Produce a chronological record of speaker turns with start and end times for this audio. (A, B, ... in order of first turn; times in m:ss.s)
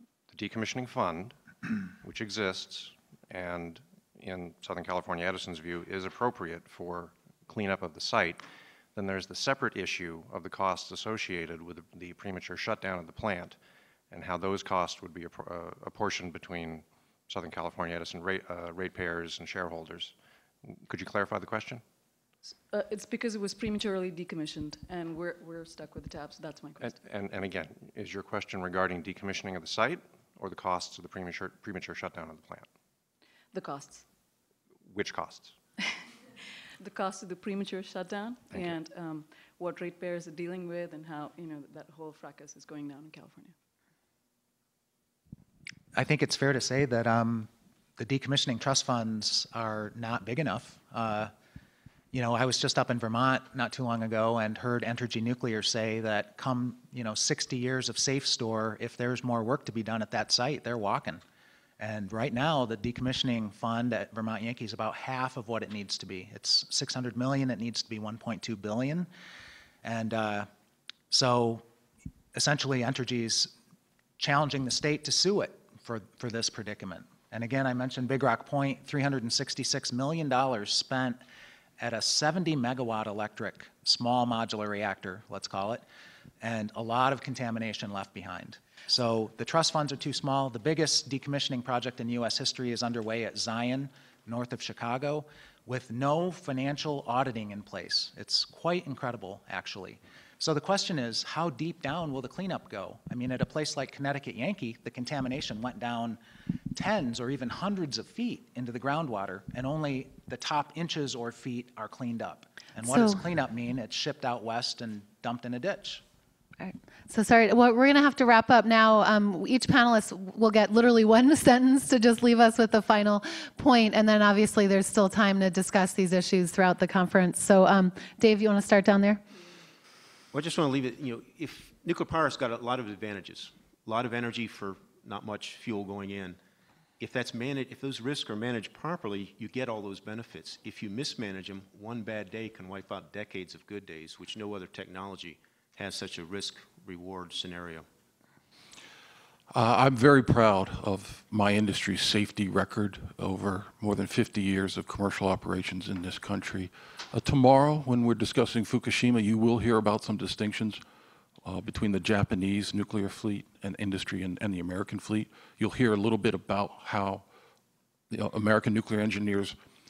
0:00.3-0:01.4 A
0:02.0-0:08.4 A
0:08.9-0:13.6 A
0:14.1-0:21.8 A
0:22.7-0:27.0 B
0:26.8-0:32.7 A
0:33.5-0:34.0 B
0:34.9-0:35.6 A
0:36.8-0:43.5 B
0:45.9-0:51.3 C
0:52.1-1:01.2 C
1:01.8-1:09.1 C
1:09.8-1:10.5 C
1:11.1-1:11.6 C
1:12.3-1:13.5 C
1:14.2-1:21.2 C
1:21.8-1:25.8 C
1:26.4-1:46.2 C
1:46.7-1:56.0 C
1:52.8-1:53.2 D
1:56.6-2:09.2 D
2:10.3-2:16.4 E
2:17.0-2:27.8 E
2:29.5-2:40.8 F
2:41.4-2:47.2 F
2:48.1-2:49.6 F